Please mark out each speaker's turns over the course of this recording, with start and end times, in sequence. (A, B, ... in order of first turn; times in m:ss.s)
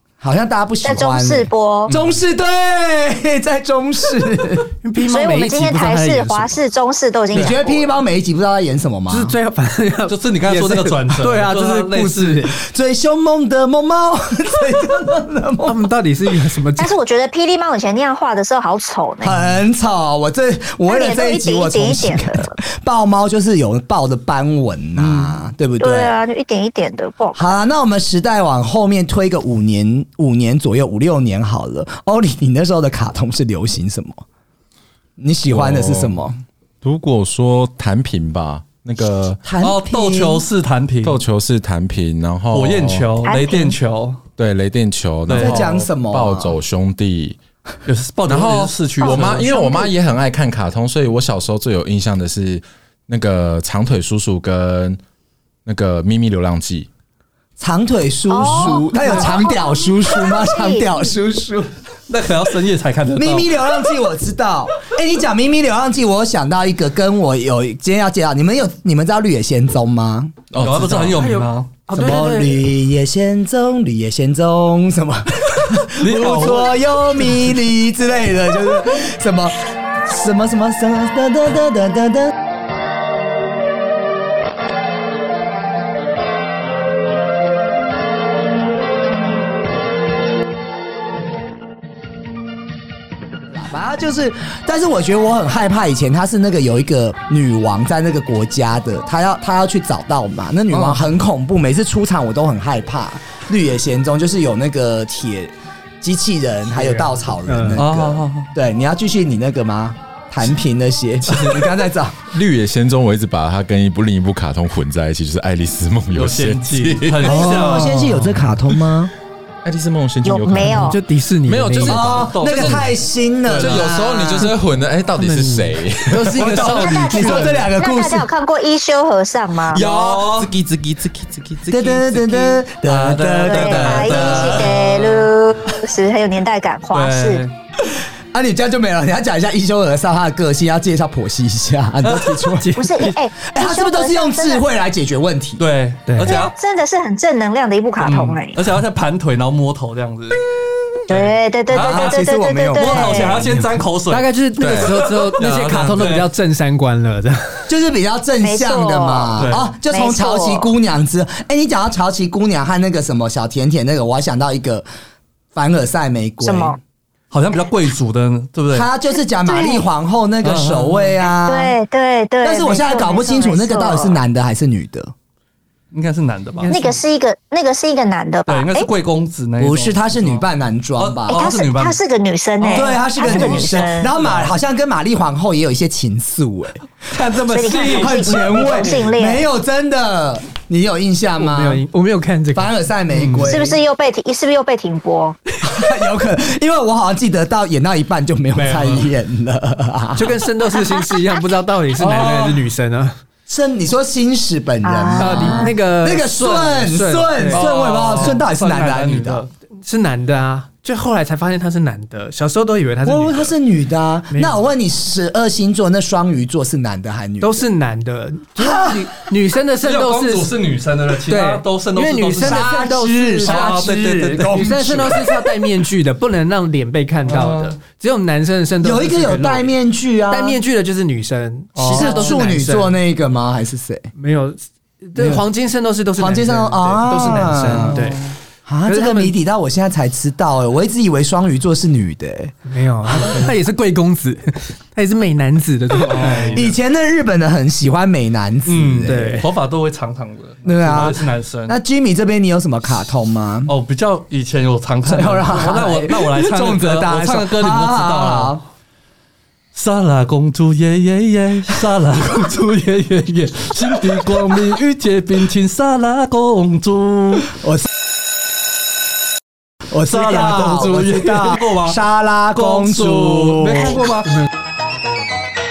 0:00.2-0:04.7 A
0:00.8-0:01.9 B
0:01.9-0:02.2 C
0:04.8-0:06.6 D
0:05.0-0:07.9 B
0:07.3-0:09.4 A
0:09.1-0:12.6 D
0:10.1-0:12.4 C
0:12.6-0:15.8 A
0:15.6-0:16.9 D
0:16.8-0:19.4 B
0:19.2-0:26.1 A
0:20.9-0:22.6 B
0:25.8-0:27.6 B
0:27.4-0:34.2 A
0:35.2-0:36.4 A
0:35.5-0:36.2 E
0:36.8-0:39.4 E
0:39.4-0:40.5 A
0:39.6-0:41.2 C
0:41.0-0:43.1 E
0:42.5-0:44.2 C
0:43.2-0:43.8 B
0:44.4-0:47.4 E
0:45.3-0:45.7 C
0:45.4-0:46.6 A
0:47.9-0:49.5 C
0:48.3-0:55.0 E
0:49.0-0:49.9 B
0:55.7-0:56.9 E
0:57.6-1:01.7 A
0:58.3-1:01.0 B
1:02.1-1:03.5 C
1:03.1-1:10.4 A
1:10.5-1:11.4 E
1:10.6-1:12.5 C
1:11.1-1:12.5 D
1:11.9-1:22.3 A
1:16.0-1:17.3 C
1:33.5-1:52.2 A
1:46.7-1:47.8 D
1:47.8-1:48.5 C
1:51.3-1:51.7 E
1:52.2-1:57.4 E
1:56.1-1:58.0 C
1:57.2-1:59.1 A
1:57.3-1:58.5 D
1:59.6-2:02.9 E
2:00.2-2:01.0 B
2:00.7-2:02.1 D
2:01.9-2:04.5 A
2:01.9-2:02.9 C
2:03.5-2:03.9 C
2:03.5-2:07.1 E
2:05.2-2:05.8 A
2:06.1-2:07.8 D
2:06.3-2:08.3 A
2:07.0-2:09.8 B
2:09.7-2:12.6 E
2:09.7-2:10.5 C
2:11.7-2:14.8 A
2:12.8-2:15.0 C
2:13.4-2:17.4 B
2:16.9-2:17.5 C
2:18.3-2:22.8 A
2:22.0-2:22.5 C
2:22.6-2:23.2 D
2:22.8-2:24.6 B
2:23.4-2:25.6 A
2:25.6-2:26.5 C
2:26.1-2:26.4 D
2:26.2-2:28.6 B
2:28.0-2:30.4 C
2:31.1-2:33.5 B
2:31.1-2:36.3 C
2:31.7-2:33.5 A
2:33.6-2:37.7 D
2:34.6-2:36.1 E
2:37.7-2:44.9 A
2:38.4-2:40.7 B
2:39.4-2:39.7 C
2:45.5-2:46.8 A
2:46.4-2:46.8 B
2:47.3-2:48.9 C
2:48.7-2:51.8 A
2:49.4-2:49.9 B
2:50.4-2:51.2 C
2:51.5-2:54.2 B
2:52.4-2:55.1 A
2:55.9-2:56.8 C
2:56.6-2:56.9 D
2:56.7-2:58.9 B
2:58.5-3:00.4 C
2:59.6-3:01.5 A
3:01.0-3:02.0 C
3:01.3-3:04.1 B
3:02.6-3:04.5 C
3:02.7-3:06.8 A
3:07.1-3:09.1 C
3:07.5-3:09.4 B
3:07.7-3:08.0 D
3:07.9-3:11.8 A
3:11.4-3:13.5 D
3:12.5-3:13.8 A
3:13.2-3:13.5 C
3:13.4-3:15.4 B
3:15.6-3:20.4 A
3:18.5-3:19.1 C
3:20.2-3:23.2 D
3:22.0-3:22.6 A
3:23.5-3:29.4 A
3:24.8-3:25.7 B
3:25.2-3:27.7 D
3:27.5-3:29.5 C
3:29.8-3:33.6 D
3:33.0-3:37.7 A
3:34.3-3:34.6 D
3:37.4-3:40.5 D
3:38.6-3:39.2 A
3:39.8-3:42.8 C
3:41.3-3:43.8 D
3:42.4-3:45.3 A
3:43.4-3:45.0 C
3:44.4-3:49.7 D
3:47.3-3:47.7 C
3:48.8-3:50.6 A
3:50.3-3:53.0 D
3:51.8-3:52.4 C
3:51.9-3:54.1 A
3:54.2-3:58.3 D
3:55.2-3:55.4 A
3:56.2-3:58.1 A
3:57.8-3:58.3 C
3:58.7-4:02.6 A
3:58.9-3:59.4 D
4:02.7-4:06.7 D
4:03.1-4:03.5 A
4:06.0-4:06.8 C
4:06.5-4:09.4 A
4:08.7-4:11.8 C
4:09.1-4:09.5 D
4:10.6-4:13.7 A
4:13.7-4:18.6 C
4:15.0-4:18.6 A
4:19.7-4:27.5 C
4:27.6-4:27.9 A
4:29.9-4:34.0 A
4:30.1-4:32.0 C
4:32.6-4:34.3 C
4:33.7-4:34.5 D